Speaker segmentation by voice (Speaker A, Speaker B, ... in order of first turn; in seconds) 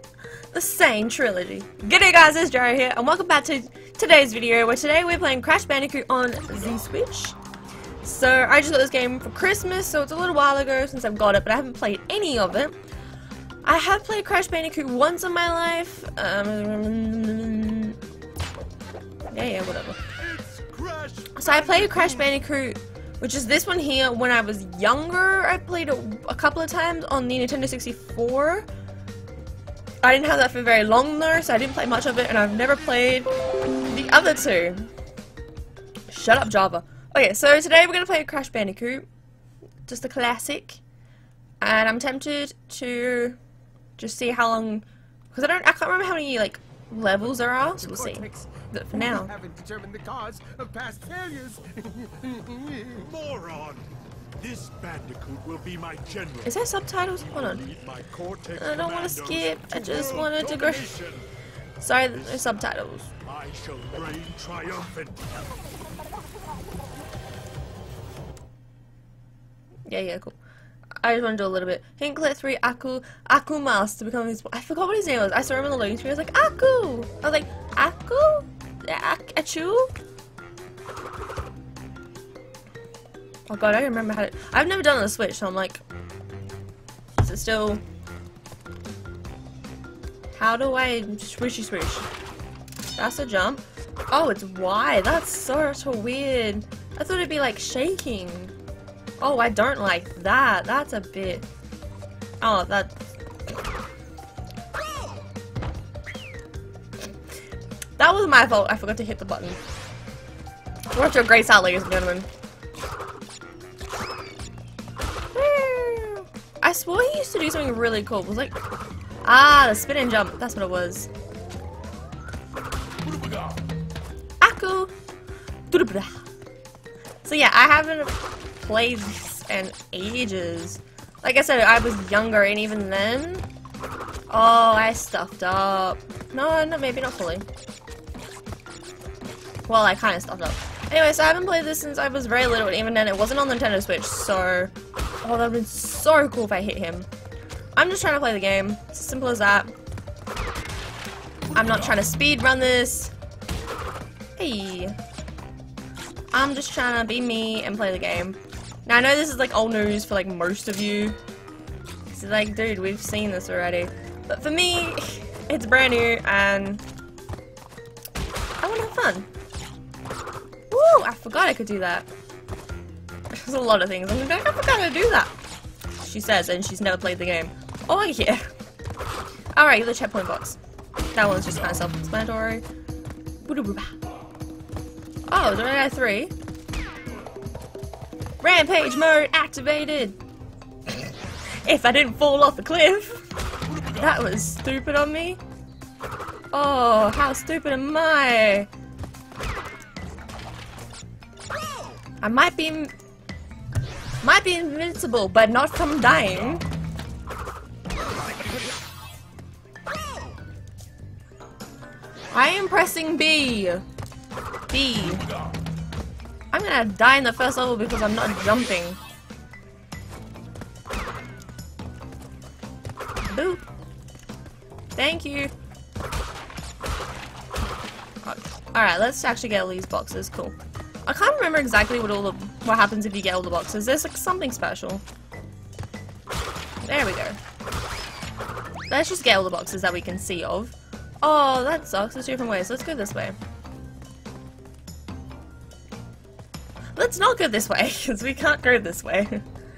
Speaker A: 0.5-7.4, 8.0-12.8, 13.6-18.0, 19.3-20.0, 21.3-28.7, 30.0-33.3, 33.8-34.9, 36.1-39.1, 39.9-40.8, 41.6-43.4, 44.0-49.3, 56.4-57.6, 58.6-60.9, 61.8-63.1, 69.8-70.3, 71.0-79.9, 83.5-85.8, 87.2-87.8, 90.3-92.1, 93.0-98.5, 99.2-101.5, 102.4-102.9, 108.0-109.6, 110.9-112.3, 115.3-118.5, 119.2-121.1, 124.4-124.9, 125.7-126.2, 127.2-133.4, 134.3-137.4, 139.7-147.1, 147.8-149.7, 151.5-153.1, 154.4-154.9, 156.3-161.2, 162.1-166.8, 168.6-169.3, 170.7-172.1, 173.3-175.3, 176.0-178.4, 179.5-180.6, 181.1-182.6, 183.4-183.9, 185.3-186.3, 188.4-190.2, 191.6-193.2, 193.9-195.4, 196.5-198.7, 202.2-202.9, 204.2-206.6, 212.3-213.8, 214.7-215.3, 216.5-219.0, 223.3-223.6, 224.9-225.5, 228.2-235.0, 236.8-237.4, 238.9-243.3, 246.9-249.4
Speaker B: 20.1-22.3, 52.9-53.9, 54.4-56.6, 57.2-61.3, 62.1-65.3
Speaker C: 47.8-53.0